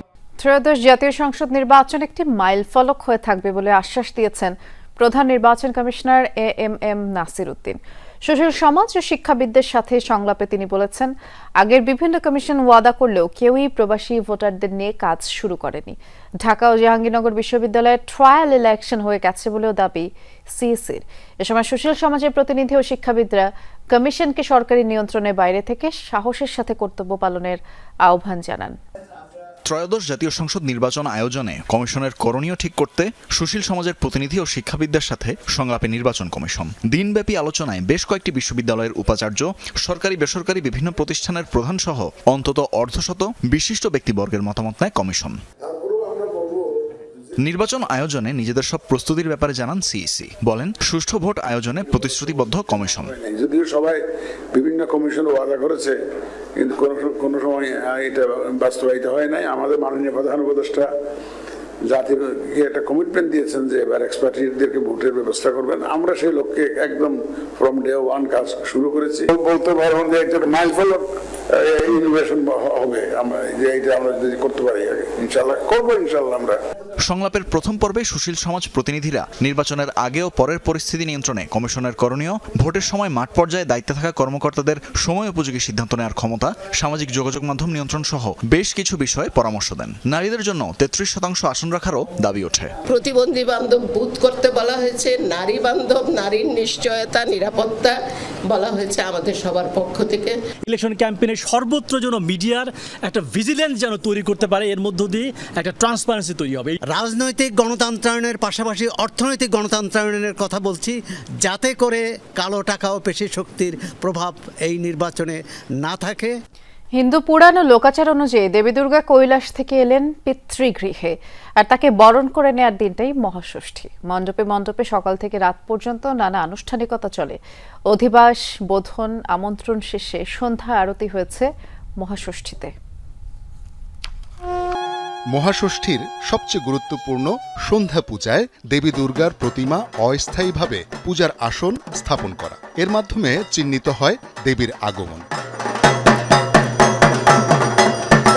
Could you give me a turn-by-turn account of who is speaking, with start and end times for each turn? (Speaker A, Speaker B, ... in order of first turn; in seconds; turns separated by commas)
Speaker A: 0.4-28.8, Speaker B: 29.7-45.3, Speaker C: 45.9-46.6, Speaker B: 47.4-53.1, Speaker C: 53.2-54.0, Speaker C: 54.5-55.9, Speaker C: 56.6-60.9, Speaker C: 61.9-71.0, Speaker C: 71.6-76.5, Speaker B: 77.0-92.7, Speaker D: 92.8-97.9, Speaker D: 98.5-100.3, Speaker E: 100.6-106.7, Speaker F: 106.9-116.3, Speaker A: 116.9-132.7, Speaker G: 135.3-145.2